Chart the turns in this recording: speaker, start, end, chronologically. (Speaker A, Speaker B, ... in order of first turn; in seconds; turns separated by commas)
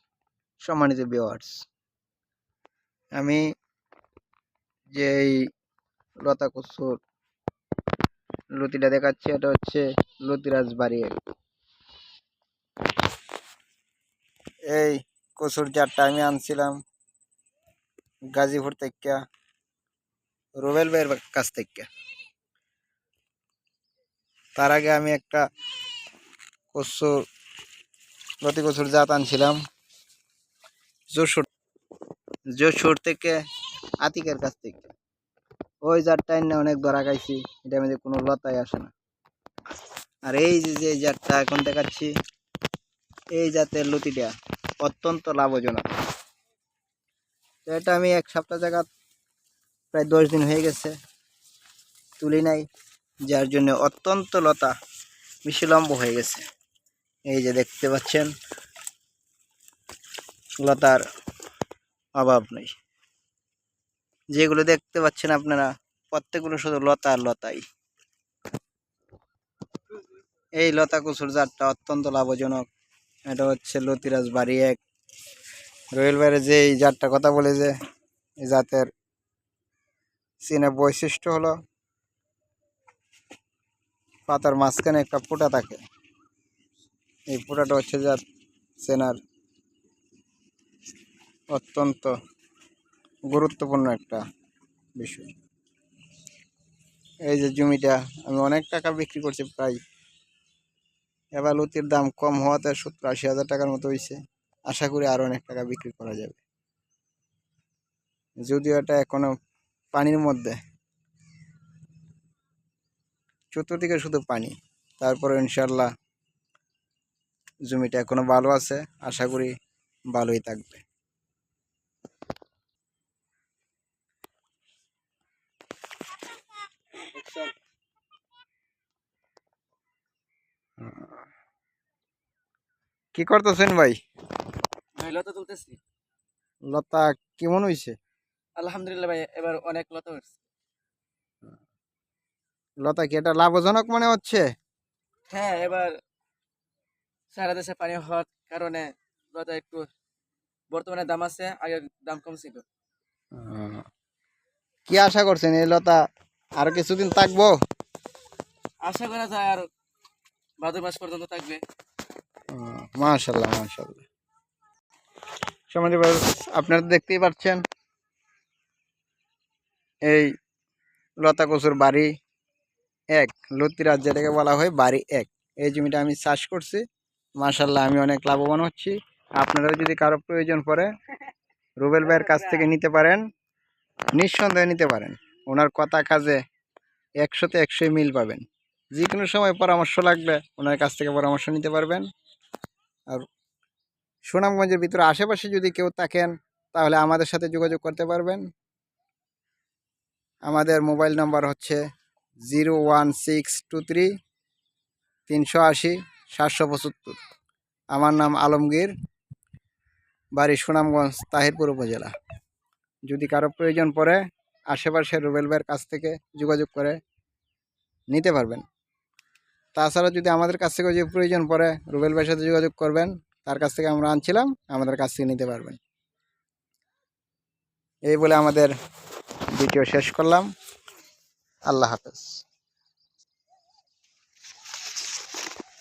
Speaker A: 0.6-1.6, Speaker A: 3.1-3.4, Speaker A: 4.9-5.5, Speaker A: 6.2-7.0, Speaker A: 8.6-11.2, Speaker A: 14.7-16.8, Speaker A: 18.3-19.2, Speaker A: 20.6-21.9, Speaker A: 24.6-25.4, Speaker A: 26.7-27.1, Speaker A: 28.4-29.6, Speaker A: 31.1-31.5, Speaker A: 32.5-33.4, Speaker A: 34.0-34.9, Speaker A: 35.8-38.9, Speaker A: 40.3-42.1, Speaker A: 43.3-45.9, Speaker A: 47.6-48.9, Speaker A: 49.9-50.9, Speaker A: 52.2-52.7, Speaker A: 53.3-54.7, Speaker A: 55.4-56.4, Speaker A: 57.3-58.3, Speaker A: 60.6-61.0, Speaker A: 62.2-62.7, Speaker A: 64.3-67.6, Speaker A: 70.6-72.7, Speaker A: 73.3-74.8, Speaker A: 75.9-77.7, Speaker A: 78.4-78.9, Speaker A: 80.4-81.5, Speaker A: 84.3-85.8, Speaker A: 87.3-88.2, Speaker A: 88.8-89.2, Speaker A: 91.5-92.1, Speaker A: 93.3-94.2, Speaker A: 95.0-95.3, Speaker A: 97.3-99.8, Speaker A: 101.4-106.4, Speaker A: 108.4-109.3, Speaker A: 109.9-110.5, Speaker A: 113.5-115.9, Speaker A: 117.7-119.5, Speaker A: 120.1-120.8, Speaker A: 130.8-131.1, Speaker A: 133.1-134.0, Speaker B: 135.0-135.8, Speaker A: 136.7-137.9, Speaker B: 138.6-140.3, Speaker A: 142.8-144.4, Speaker B: 145.3-145.9, Speaker B: 147.3-149.9, Speaker B: 150.7-152.6, Speaker A: 153.3-153.8, Speaker A: 154.9-156.0, Speaker A: 156.6-157.6, Speaker B: 158.8-159.6, Speaker B: 160.6-161.6, Speaker A: 162.5-164.0, Speaker A: 165.7-167.6, Speaker A: 170.1-170.3, Speaker A: 171.2-172.1, Speaker A: 173.1-176.8, Speaker A: 177.4-180.9, Speaker A: 181.8-183.2, Speaker A: 184.1-186.4, Speaker A: 187.2-188.4, Speaker A: 188.9-192.0, Speaker A: 194.3-198.4, Speaker A: 200.5-201.8, Speaker A: 202.5-204.1, Speaker A: 205.3-207.2, Speaker A: 207.9-208.9, Speaker A: 210.3-212.1, Speaker A: 213.1-217.0, Speaker A: 218.1-218.6, Speaker A: 219.7-225.8, Speaker A: 228.1-228.7, Speaker A: 229.5-230.5, Speaker A: 231.7-232.4